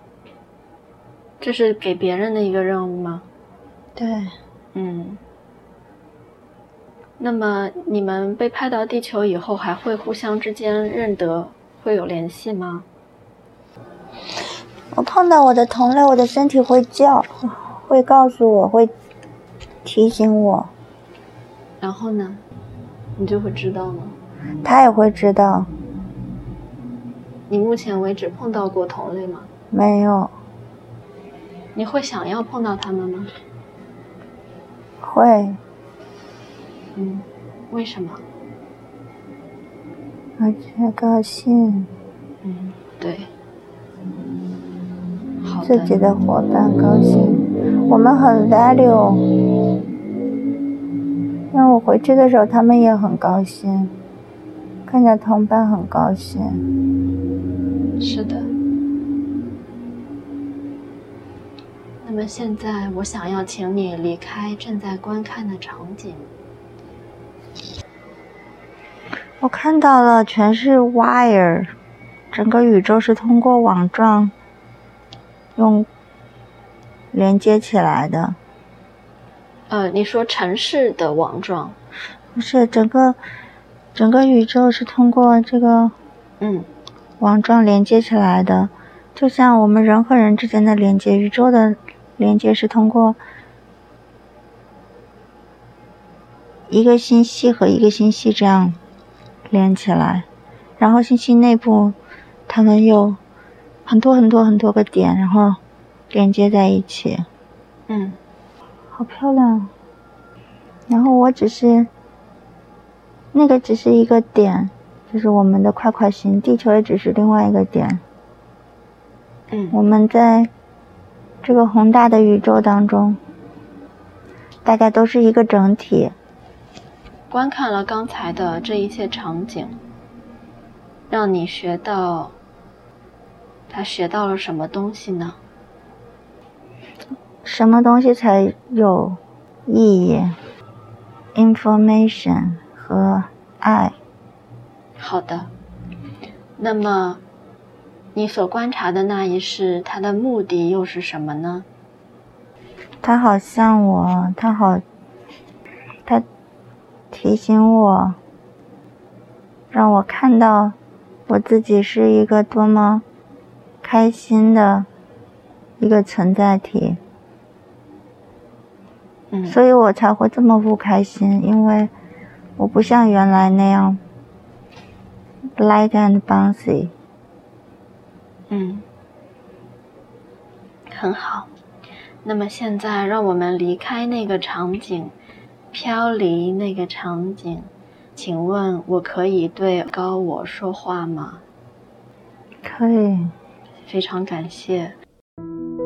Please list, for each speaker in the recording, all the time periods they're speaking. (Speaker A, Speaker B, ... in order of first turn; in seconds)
Speaker A: 1.4-3.3, 4.7-5.2, 7.2-12.9, 21.8-22.4, 23.1-24.2, 27.5-29.5, 31.7-33.3, 36.9-38.2, 42.4-43.3, 45.4-46.0, 58.0-58.5, 62.0-66.3, 79.7-81.8, 86.4-86.7, 107.9-108.2, 119.5-119.8, 127.3-129.8, 131.1-132.3, 133.7-135.4, 145.0-145.5, 146.6-147.2, 148.1-151.7, 169.3-169.6, 178.5-178.8, 180.9-181.5, 182.2-185.1, 185.7-191.4, 193.8-194.9
Speaker B: 3.9-4.3, 14.9-18.9, 19.8-20.7, 24.6-25.7, 29.7-30.3, 35.0-35.6, 40.4-41.9, 45.6-49.4, 51.5-53.9, 54.9-56.6, 69.4-71.7, 72.3-74.3, 75.5-75.9, 77.1-78.4, 82.3-83.2, 83.9-85.9, 87.2-93.2, 96.7-98.8, 99.5-100.3, 100.8-102.0, 102.5-103.2, 103.8-107.3, 108.9-109.7, 110.9-111.9, 113.3-118.0, 119.7-120.5, 121.4-123.2, 124.6-126.1, 137.4-140.4, 141.3-144.0, 153.0-154.8, 157.1-158.2, 159.7-160.8, 161.3-163.0, 163.8-164.9, 165.8-167.0, 169.5-171.9, 172.6-174.0, 175.6-176.9, 192.6-193.3